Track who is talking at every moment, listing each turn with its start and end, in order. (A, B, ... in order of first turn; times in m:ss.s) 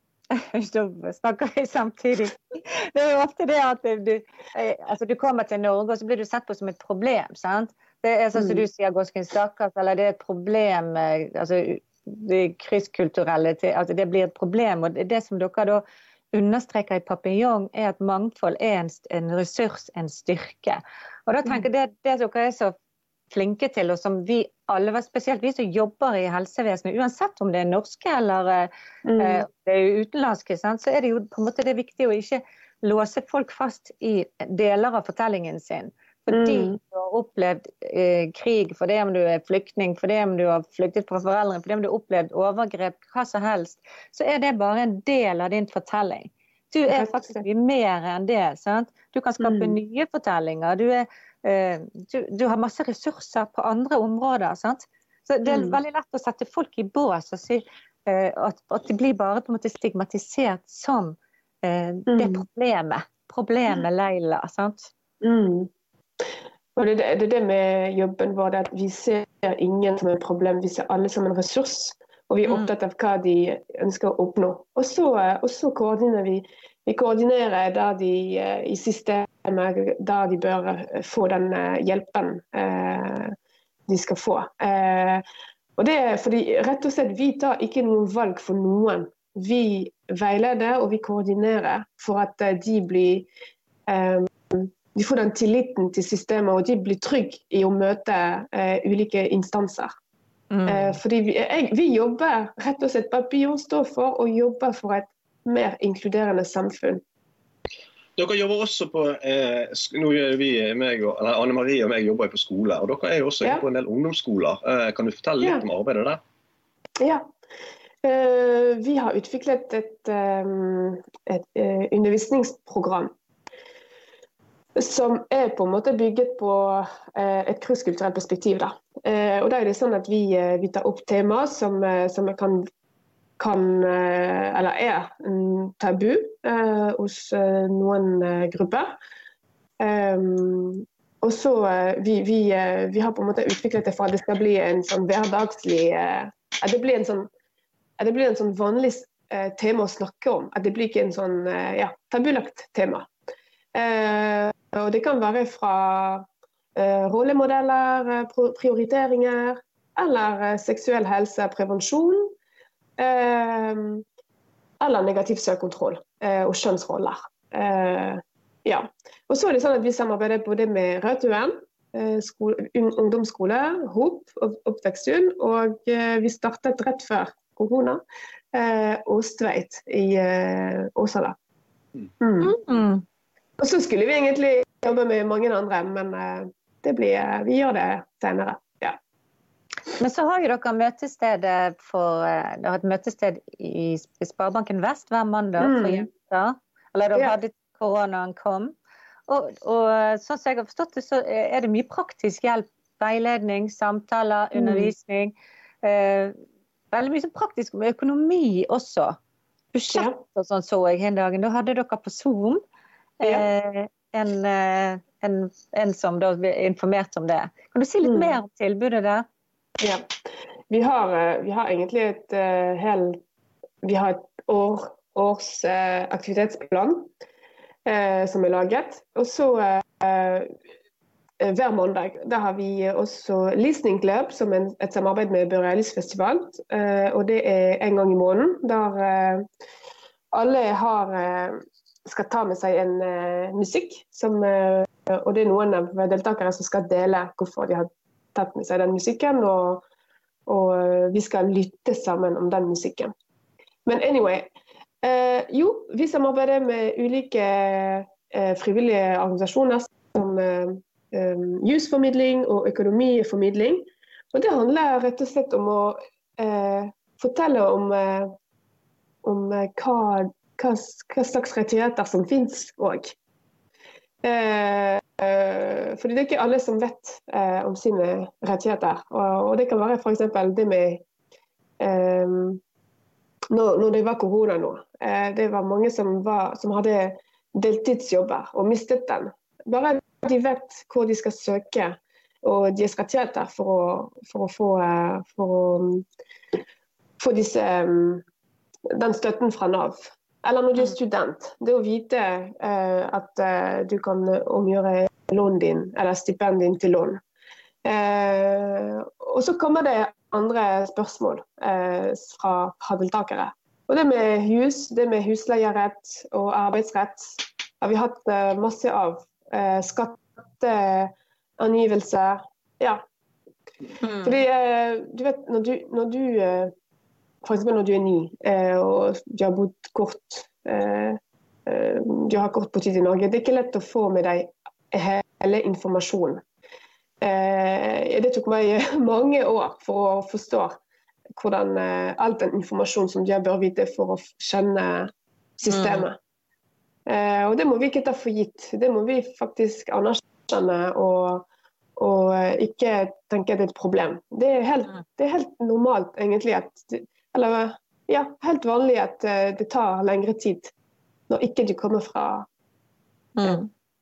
0:00.3-0:22.7 A
0:08.4-0:08.7 B
0:23.3-1:04.9 A
0:29.0-0:29.4 B
0:36.3-0:36.8 B
0:46.9-0:47.4 B
0:49.4-0:49.8 B
0:55.5-0:55.8 B
1:02.1-1:02.4 B
1:05.2-1:05.7 B
1:06.8-1:23.4 B
1:23.9-1:25.2 B
1:25.8-1:33.3 B
1:33.9-1:39.9 B
1:40.5-1:41.0 A
1:40.7-1:47.0 B
1:48.2-1:56.2 C
1:57.0-1:57.3 B
1:58.0-2:03.1 B
2:04.8-2:12.7 B
2:13.4-2:19.0 B
2:19.8-2:27.3 B
2:28.0-2:33.1 B
2:33.8-2:42.3 B
2:43.0-2:44.0 B
2:44.8-2:58.0 B
2:58.5-3:01.4 B
3:02.2-3:02.6 B
3:02.4-3:03.0 A
3:03.6-3:09.0 B
3:10.0-3:18.8 A
3:15.6-3:16.1 B
3:19.3-3:26.4 A
3:24.6-3:24.9 B
3:26.9-3:29.2 A
3:29.7-3:32.6 A
3:29.9-3:30.2 B
3:33.2-3:39.3 A
3:33.2-3:33.5 B
3:38.0-3:38.4 B
3:39.8-3:40.1 B
3:40.7-3:43.2 B
3:43.8-3:47.1 B
3:47.9-3:50.5 B
3:51.4-3:59.5 B
4:00.3-4:09.8 B
4:10.5-4:13.1 B
4:13.9-4:14.5 B
4:15.0-4:28.4 B
4:29.2-4:33.2 B
4:34.2-4:41.0 B
4:41.8-4:42.6 B
4:43.5-4:56.1 B
4:57.2-4:58.2 B
4:58.9-5:07.2 B
5:07.8-5:23.1 B
5:24.0-5:24.4 A
5:24.2-5:26.7 B
5:27.4-5:36.4 B
5:37.2-5:40.8 B
5:41.4-5:46.2 B
5:45.7-5:46.1 A
5:47.1-5:51.5 B
5:52.0-6:00.7 B
6:01.3-6:02.5 B
6:03.4-6:03.7 A